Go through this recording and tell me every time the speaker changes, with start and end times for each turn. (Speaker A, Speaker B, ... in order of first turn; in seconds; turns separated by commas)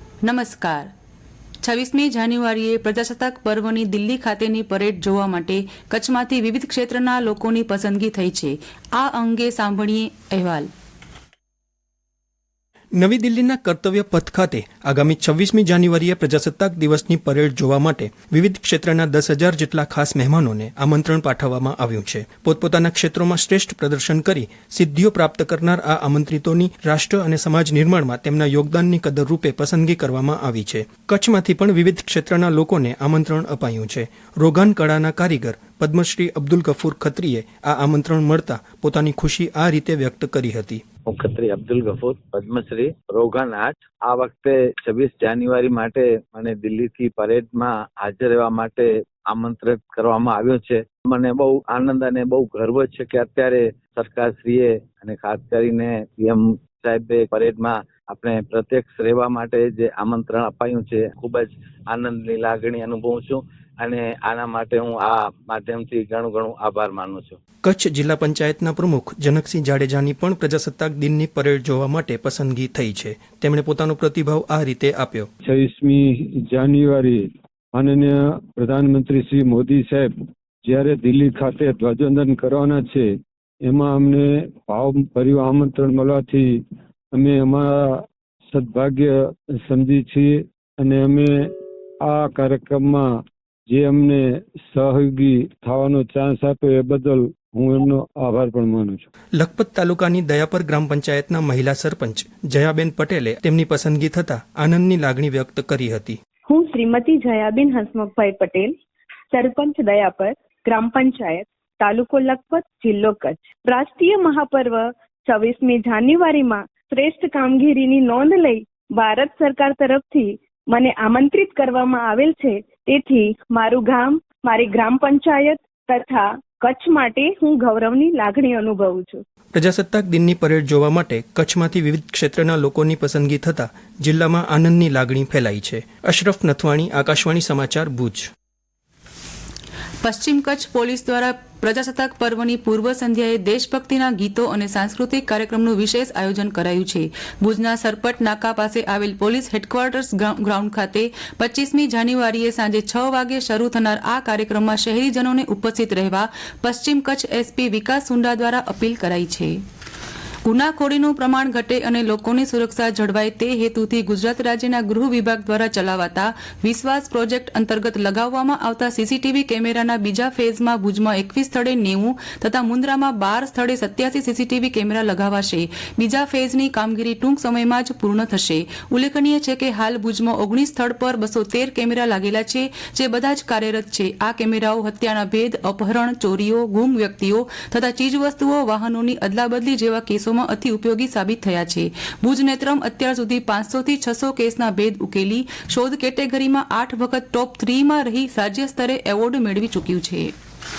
Speaker A: 0.2-0.9, Speaker A: 1.6-10.7, Speaker B: 13.0-40.8, Speaker C: 41.1-67.4, Speaker B: 67.6-75.3, Speaker D: 75.4-80.1, Speaker D: 80.6-83.1, Speaker D: 83.6-86.6, Speaker D: 87.1-91.5, Speaker D: 92.0-93.1, Speaker D: 93.7-99.0, Speaker B: 99.4-106.2, Speaker E: 106.5-108.7, Speaker E: 109.3-129.2, Speaker B: 129.5-138.3, Speaker A: 140.0-159.6, Speaker A: 160.4-200.3